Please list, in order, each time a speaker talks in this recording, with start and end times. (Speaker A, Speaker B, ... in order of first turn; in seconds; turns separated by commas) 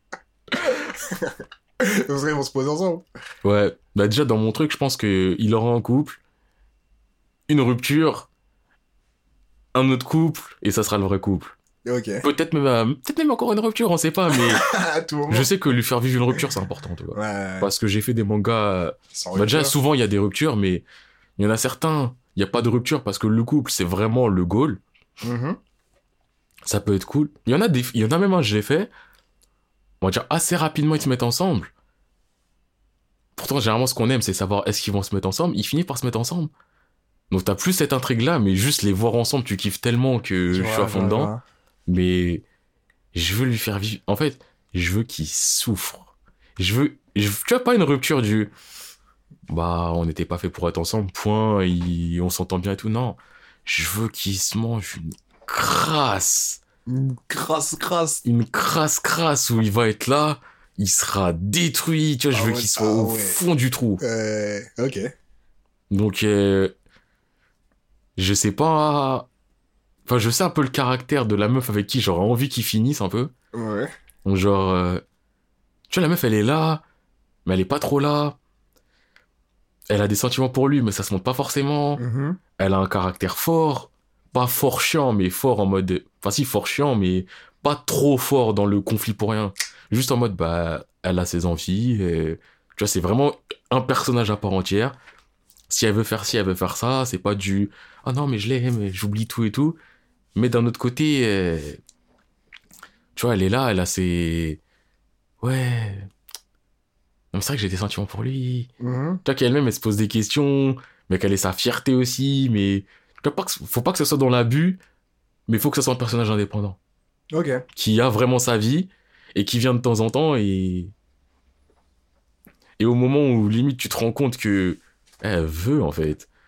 Speaker A: 0.6-3.0, Speaker B: 3.4-6.2, Speaker B: 7.5-8.3, Speaker B: 9.7-11.5, Speaker A: 11.8-12.2, Speaker B: 12.2-14.7, Speaker A: 14.3-15.5, Speaker B: 15.3-20.8, Speaker A: 17.1-17.7, Speaker A: 19.1-19.7, Speaker B: 21.4-24.8, Speaker A: 25.2-25.6, Speaker B: 26.6-28.9, Speaker B: 30.0-31.7, Speaker B: 33.4-36.5, Speaker B: 37.3-41.3, Speaker A: 40.5-41.4, Speaker B: 41.9-42.4, Speaker B: 43.1-48.5, Speaker B: 49.5-56.6, Speaker A: 56.9-58.2, Speaker B: 58.2-64.0, Speaker A: 62.3-63.4, Speaker A: 64.0-65.1, Speaker B: 65.9-66.7, Speaker B: 68.2-69.3, Speaker B: 70.0-73.3, Speaker A: 73.5-73.9, Speaker B: 74.2-75.0, Speaker B: 75.9-76.8, Speaker B: 77.4-78.4, Speaker B: 79.9-82.0, Speaker A: 82.0-82.4, Speaker B: 82.6-95.0, Speaker B: 95.7-99.8, Speaker B: 100.3-101.8, Speaker B: 103.1-104.6, Speaker B: 105.4-106.1, Speaker B: 107.3-108.7, Speaker A: 108.8-109.2, Speaker B: 109.2-114.8, Speaker B: 115.5-116.8, Speaker A: 117.3-117.6, Speaker B: 117.7-120.9, Speaker B: 122.8-126.3